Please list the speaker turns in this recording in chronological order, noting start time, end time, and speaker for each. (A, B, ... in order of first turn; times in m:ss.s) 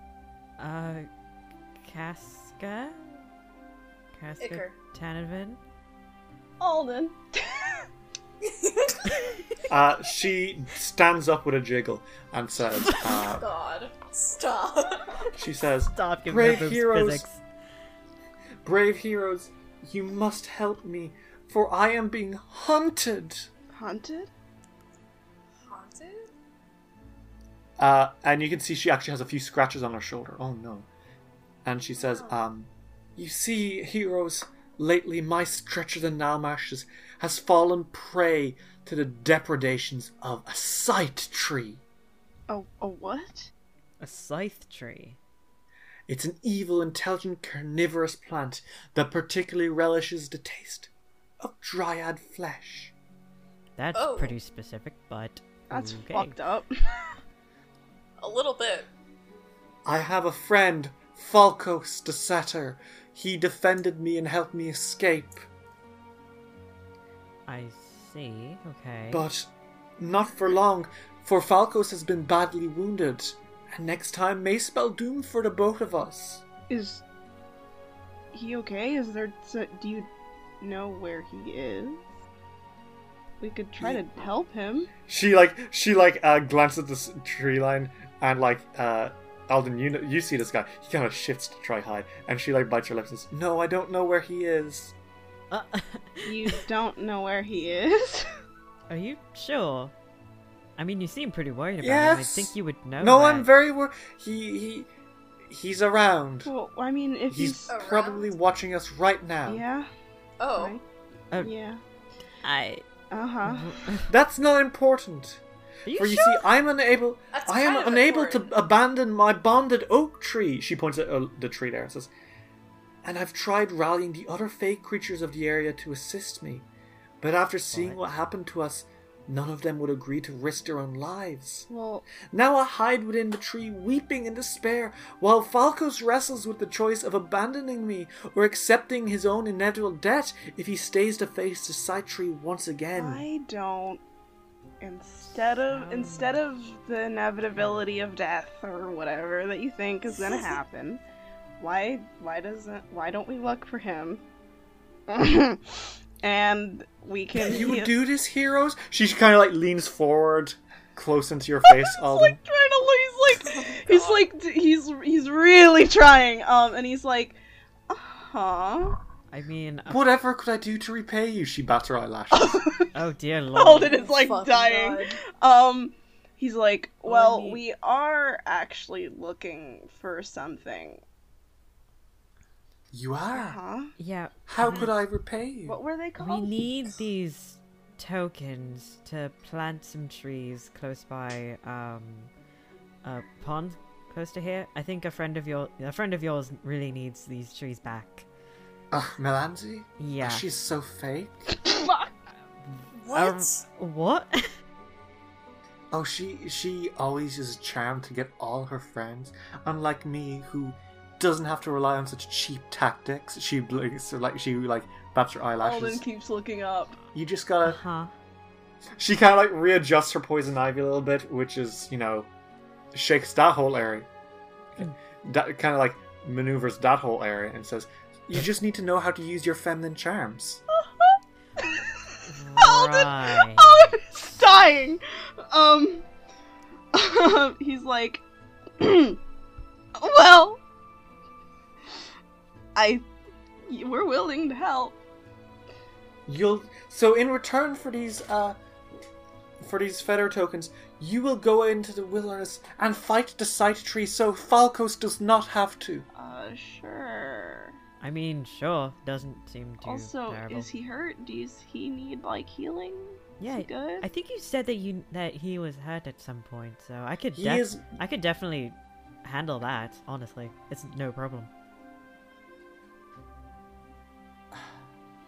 0:00.6-0:01.1 A
0:01.8-0:03.2 A
0:04.1-0:05.6 A
0:04.4-0:04.8 B
0:06.6-0:07.9 C
0:08.4-0:09.1 B
0:09.7-0:13.4 D
0:12.9-0:15.3 B
0:15.3-0:17.2 D
0:15.9-0:17.4 A
0:18.6-0:23.5 D
0:23.7-0:24.3 C
0:25.7-0:26.3 B
0:27.8-0:30.9 D
0:31.6-0:41.8 D
0:32.0-0:32.3 B
0:42.5-0:43.5 C
0:44.0-0:45.2 A
0:46.1-0:50.9 D
0:51.4-0:52.9 D
0:53.8-0:56.4 A
0:54.0-0:54.4 B
0:55.7-0:57.1 C
0:58.2-0:58.9 B
0:59.9-1:05.5 D
1:07.5-1:09.2 A
1:09.1-1:16.5 D
1:16.7-1:17.0 C
1:18.3-1:20.1 C
1:20.6-1:22.0 C
1:23.4-1:24.9 C
1:25.1-1:35.0 D
1:35.5-1:36.6 A
1:36.2-1:38.3 C
1:38.9-1:39.9 A
1:40.8-1:43.5 A
1:41.8-1:44.9 D
1:45.5-1:46.5 D
1:46.5-1:47.7 C
1:47.3-1:49.6 D
1:47.7-1:48.3 B
1:49.5-1:49.9 C
1:50.4-1:50.8 B
1:50.6-1:50.8 C
1:51.4-1:51.8 C
1:52.4-1:52.9 A
1:53.1-1:53.8 C
1:53.4-1:54.1 A
1:54.1-1:55.4 D
1:55.9-1:56.4 A
1:55.9-2:02.1 D
1:57.3-1:58.5 B
2:03.0-2:06.7 D
2:07.2-2:11.7 D
2:07.7-2:08.0 A
2:11.7-2:12.1 C
2:12.2-2:23.3 D
2:23.0-2:24.0 C
2:24.8-2:31.0 C
2:25.7-2:26.4 A
2:31.6-2:34.2 C
2:35.1-2:37.9 C
2:37.4-2:42.4 D
2:41.6-2:47.4 C
2:43.4-2:44.3 B
2:47.9-2:49.0 C
2:49.3-2:50.1 A
2:49.9-2:52.9 D
2:52.3-2:52.9 C
2:52.9-2:54.2 A
2:53.6-3:01.0 C
2:54.0-2:55.2 B
2:57.0-2:57.6 A
3:02.9-3:03.6 D
3:03.3-3:03.9 C
3:04.0-3:04.9 A
3:04.5-3:05.8 D
3:05.7-3:06.5 C
3:06.2-3:12.3 A
3:13.0-3:18.3 A
3:18.9-3:21.4 D
3:20.0-3:20.5 A
3:21.5-3:22.2 C
3:22.9-3:23.6 B
3:23.1-3:24.5 A
3:25.9-3:36.0 D
3:35.6-3:37.0 C
3:37.1-3:37.8 D
3:37.6-3:38.1 A
3:39.0-3:42.3 D
3:42.9-3:44.1 D
3:44.8-3:50.6 D
3:51.0-3:51.7 C
3:52.3-3:53.9 A
3:52.6-3:56.0 C
3:56.9-3:58.2 C
3:58.8-3:59.2 C
4:00.0-4:00.6 C
4:02.8-4:03.1 C
4:03.7-4:05.0 C
4:06.3-4:08.6 D
4:09.6-4:16.1 D
4:16.2-4:17.8 C
4:18.0-4:20.7 A
4:19.8-4:24.1 C
4:23.4-4:31.5 A
4:27.4-4:27.9 D